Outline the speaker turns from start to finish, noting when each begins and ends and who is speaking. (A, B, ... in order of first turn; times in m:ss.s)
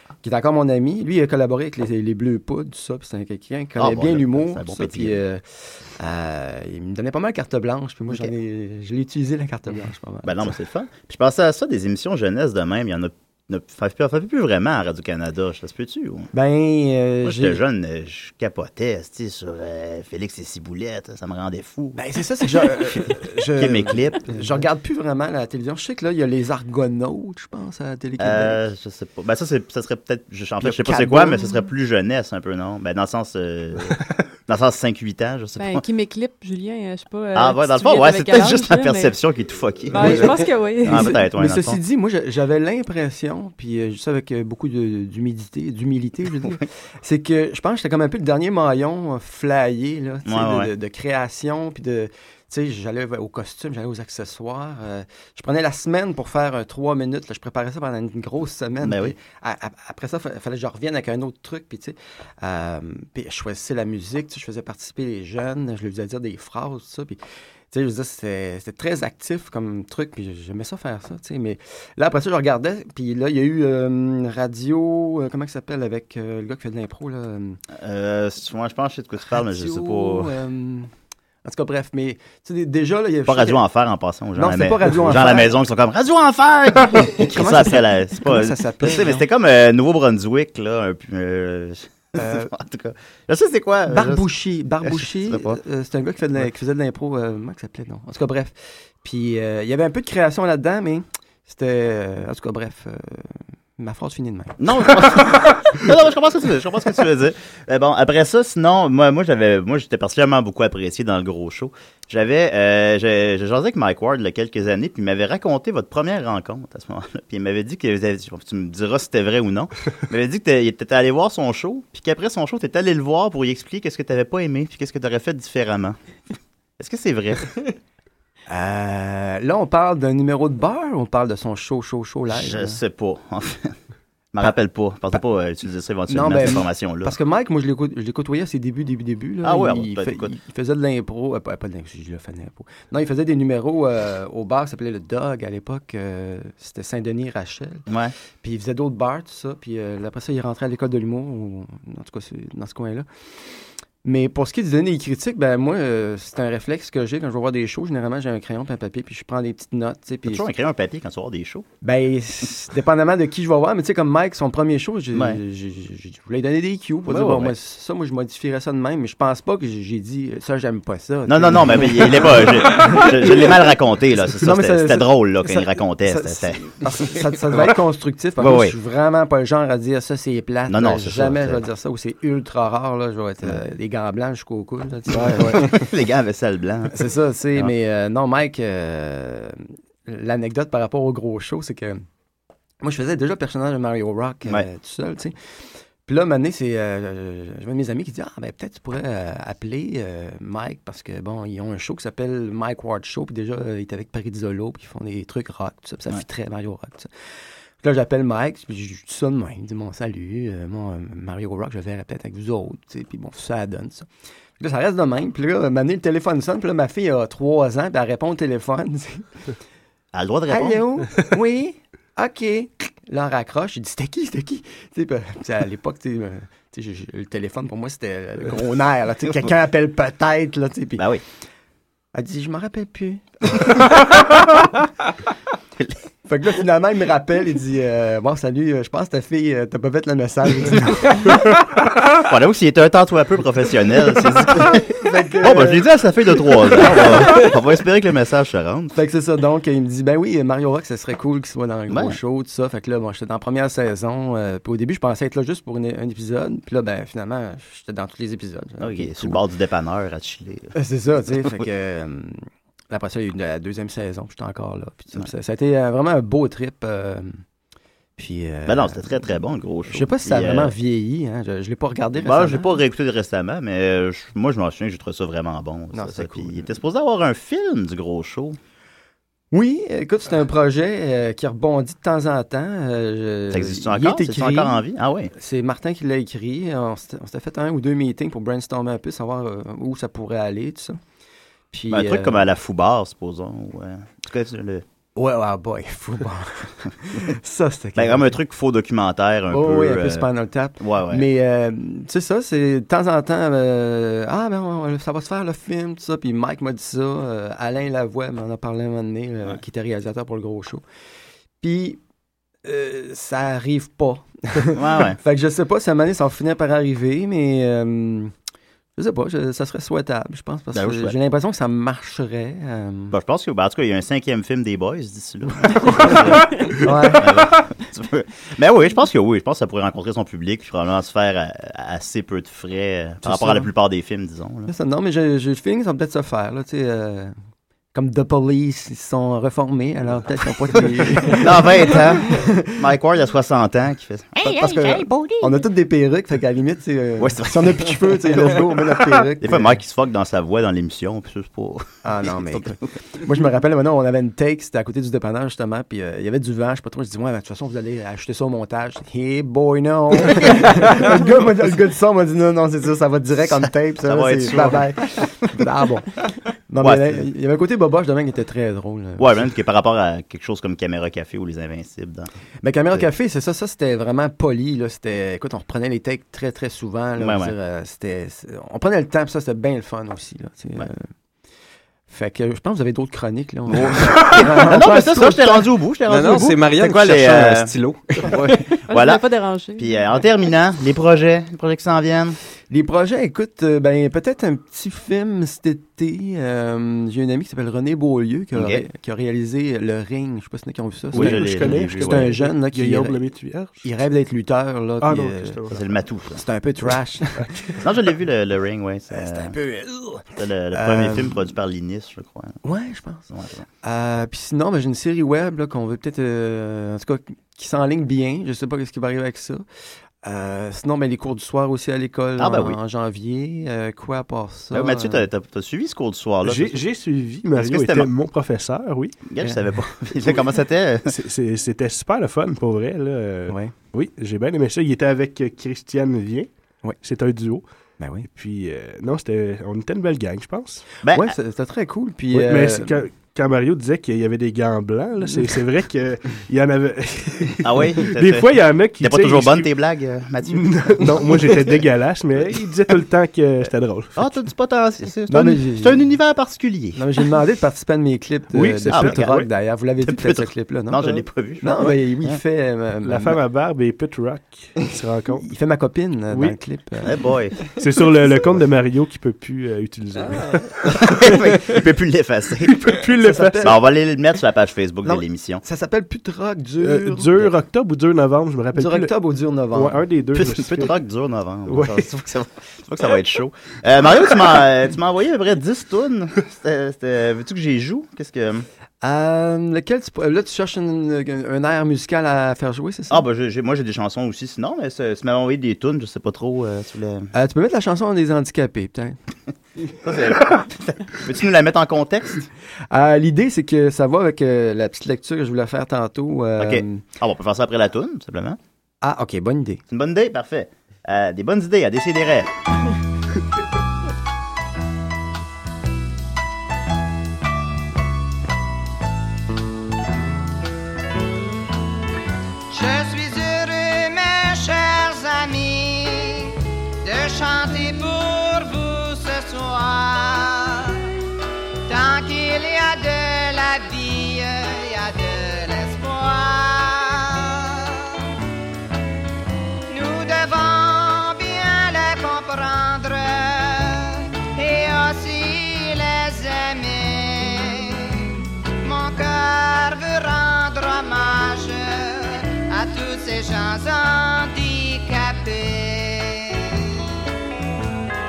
0:00.2-0:05.4 A
0:03.8-0:05.2 B
0:06.0-0:10.6 A
0:10.2-0:16.3 B
0:16.3-0:17.6 A
0:17.2-0:24.6 B
0:22.0-0:28.6 A
0:28.2-0:35.8 B
0:30.6-0:31.4 A
0:35.6-0:39.2 C
0:37.3-0:41.8 B
0:39.9-0:41.2 C
0:41.1-1:07.2 A
0:50.2-0:50.7 B
0:58.8-0:59.1 B
1:07.7-1:17.6 A
1:17.8-1:20.3 B
1:19.3-1:20.9 A
1:21.4-1:23.6 A
1:23.2-1:34.3 B
1:24.4-1:25.5 A
1:27.1-1:29.2 A
1:32.2-1:32.5 A
1:33.9-1:44.6 A
1:34.8-1:35.6 B
1:44.6-2:06.0 B
2:06.8-2:07.5 B
2:08.5-2:12.8 A
2:12.3-2:13.7 B
2:14.3-2:17.1 B
2:16.1-2:27.8 A
2:19.4-2:20.3 B
2:27.9-2:28.1 B
2:28.4-2:33.0 A
2:34.0-2:40.5 A
2:40.2-2:41.6 B
2:41.8-2:53.5 A
2:45.1-2:45.4 B
2:47.1-2:47.5 B
2:51.2-2:56.7 B
2:54.4-3:05.8 A
2:58.4-2:58.7 B
3:00.7-3:01.6 B
3:05.2-3:05.6 D
3:05.4-3:07.7 B
3:06.9-3:12.0 A
3:12.8-3:15.3 A
3:16.0-3:27.1 A
3:27.8-3:34.1 A
3:34.6-3:39.3 A
3:40.1-3:40.8 B
3:40.5-3:51.0 A
3:51.0-3:51.2 B
3:52.1-3:53.8 A
3:56.3-4:01.3 A
4:02.1-4:08.9 B
4:04.9-4:05.8 A
4:08.9-4:19.4 A
4:11.9-4:12.2 B
4:18.8-4:20.7 B
4:20.7-4:27.4 A
4:28.2-4:29.3 A
4:28.6-4:30.7 B
4:29.9-4:32.8 A
4:32.2-4:38.6 B
4:35.9-4:36.7 A
4:39.5-4:44.8 A
4:43.5-4:45.3 B
4:45.3-4:51.0 A
4:51.7-4:52.4 A
4:51.9-4:54.8 B
4:55.2-4:58.3 A
4:57.9-5:00.3 B
4:59.5-5:10.8 A
5:00.8-5:01.3 B
5:11.6-5:12.0 A
5:12.6-5:18.3 A
5:14.7-5:15.2 B
5:19.0-5:23.1 A
5:20.7-5:21.1 B
5:23.1-5:34.7 B
5:26.8-5:27.3 A
5:33.2-5:33.7 A
5:34.7-5:37.3 A
5:37.9-5:42.7 A
5:41.3-5:45.6 B
5:44.4-5:49.8 A
5:47.2-5:48.8 B
5:49.4-5:52.8 B
5:52.0-6:09.3 A
6:04.0-6:05.6 B
6:06.8-6:07.3 B
6:09.2-6:12.3 B
6:12.6-6:21.1 A
6:17.2-6:17.5 B
6:22.1-6:25.7 A
6:23.7-6:27.7 B
6:26.1-6:28.3 E
6:28.3-6:32.4 B
6:28.9-6:30.2 C
6:32.7-6:43.2 A
6:38.5-6:38.8 B
6:41.1-6:43.9 D
6:41.1-6:42.4 B
6:43.8-6:45.6 A
6:45.0-6:45.8 D
6:45.7-6:46.4 B
6:46.3-6:47.5 A
6:47.4-6:47.8 D
6:47.8-6:49.6 B
6:49.1-6:51.4 A
6:50.4-6:52.6 B
6:52.6-6:53.3 A
6:53.3-6:53.6 B
6:53.8-6:59.6 A
7:00.2-7:05.2 A
7:02.4-7:02.8 B
7:04.7-7:06.8 B
7:06.4-7:09.2 D
7:07.6-7:08.1 B
7:09.2-7:11.1 B
7:11.0-7:16.5 D
7:13.5-7:13.7 A
7:17.0-7:17.6 D
7:18.0-7:18.3 A
7:18.3-7:20.8 D
7:21.0-7:21.3 B
7:21.1-7:22.9 A
7:22.3-7:29.7 D
7:27.6-7:31.7 B
7:30.5-7:34.3 D
7:34.2-7:37.0 B
7:35.3-7:36.1 A
7:36.9-7:43.4 A
7:38.5-7:39.5 D
7:38.9-7:39.2 B
7:40.0-7:42.4 B
7:43.0-7:45.5 D
7:45.4-7:47.2 A
7:46.3-7:46.6 D
7:47.0-7:47.6 B
7:47.8-7:51.3 D
7:50.9-7:53.0 B
7:52.7-7:53.7 D
7:53.2-7:53.8 A
7:53.6-7:55.6 B
7:55.0-7:57.5 A
7:56.8-7:59.1 D
7:58.7-8:00.0 A
7:59.7-8:01.0 D
8:00.3-8:08.6 B
8:01.7-8:02.1 D
8:09.0-8:13.2 A
8:13.1-8:17.3 B
8:17.3-8:19.2 A
8:20.0-8:22.5 B
8:22.9-8:27.0 A
8:26.6-8:28.6 B
8:29.0-8:29.8 A
8:29.9-8:32.5 B
8:42.7-8:51.0 F
8:51.9-8:58.2 F
8:59.9-9:17.1 F